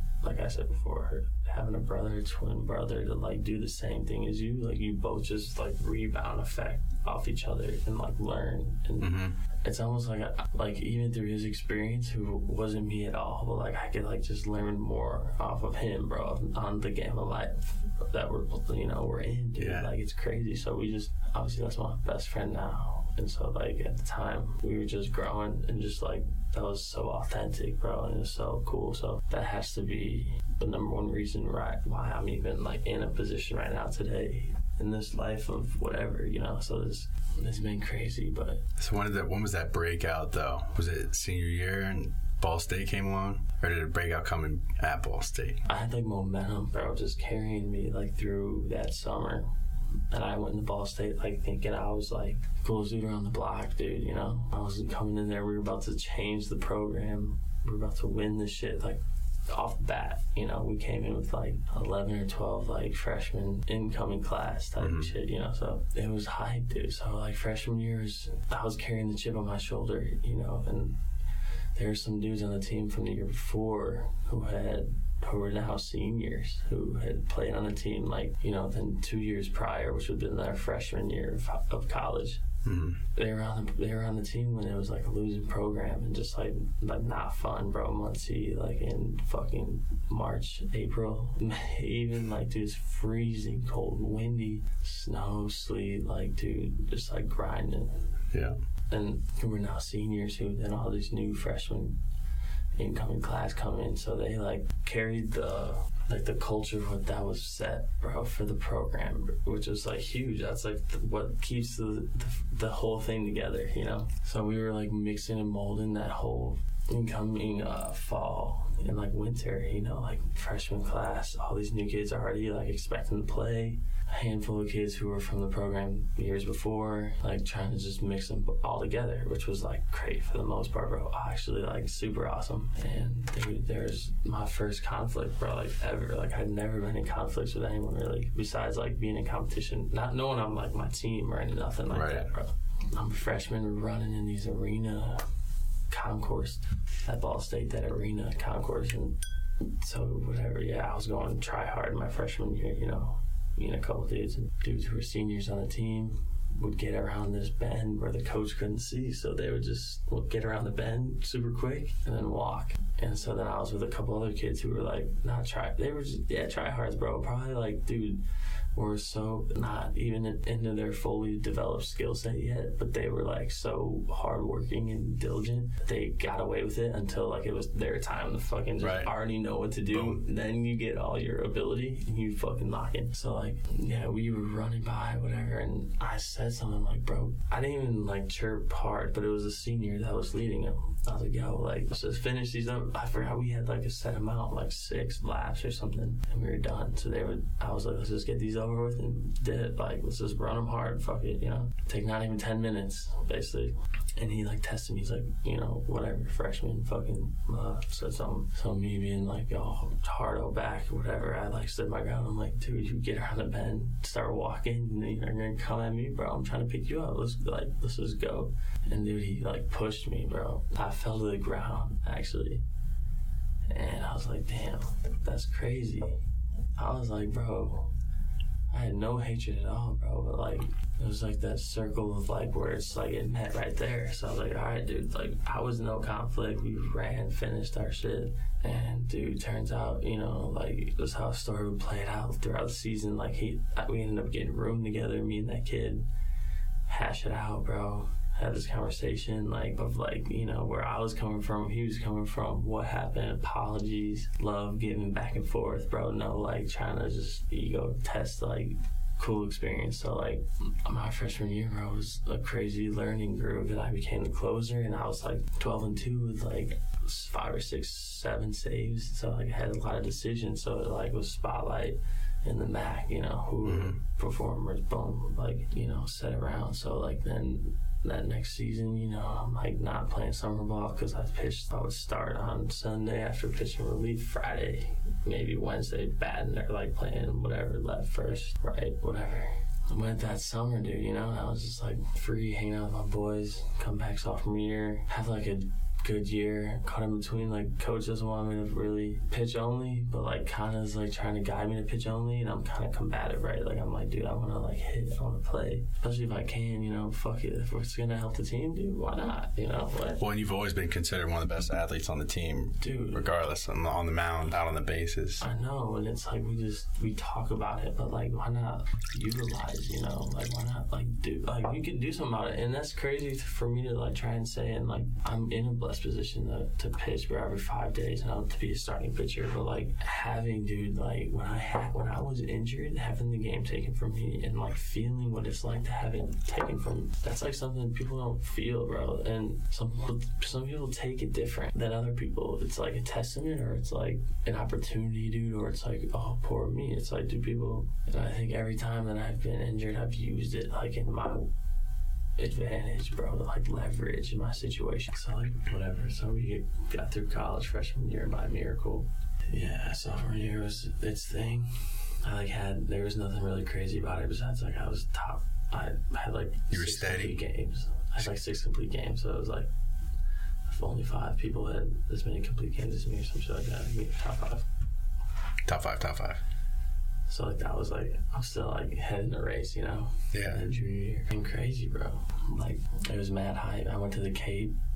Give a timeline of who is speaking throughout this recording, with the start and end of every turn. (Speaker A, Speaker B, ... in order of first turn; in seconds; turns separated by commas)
Speaker A: 0.2-38.6, Speaker B: 9.0-9.4, Speaker B: 19.6-19.9, Speaker B: 38.8-45.6, Speaker A: 45.7-49.5, Speaker A: 50.1-71.0, Speaker B: 64.8-65.1, Speaker A: 71.8-82.4, Speaker B: 82.6-83.0, Speaker A: 83.1-98.0, Speaker B: 98.3-98.6, Speaker A: 98.9-102.0, Speaker A: 102.8-145.3, Speaker B: 141.9-142.3, Speaker A: 145.9-168.2, Speaker A: 168.8-222.6, Speaker B: 178.8-179.1, Speaker B: 179.9-180.2, Speaker A: 223.7-226.2, Speaker A: 226.8-227.9, Speaker A: 228.7-246.1, Speaker A: 246.9-310.2, Speaker B: 273.6-274.0, Speaker B: 310.2-315.4, Speaker A: 312.8-313.2, Speaker A: 315.4-351.5, Speaker A: 352.4-369.7, Speaker B: 366.7-367.4, Speaker A: 370.7-374.6, Speaker B: 375.6-376.4, Speaker A: 377.3-384.8, Speaker B: 380.3-380.6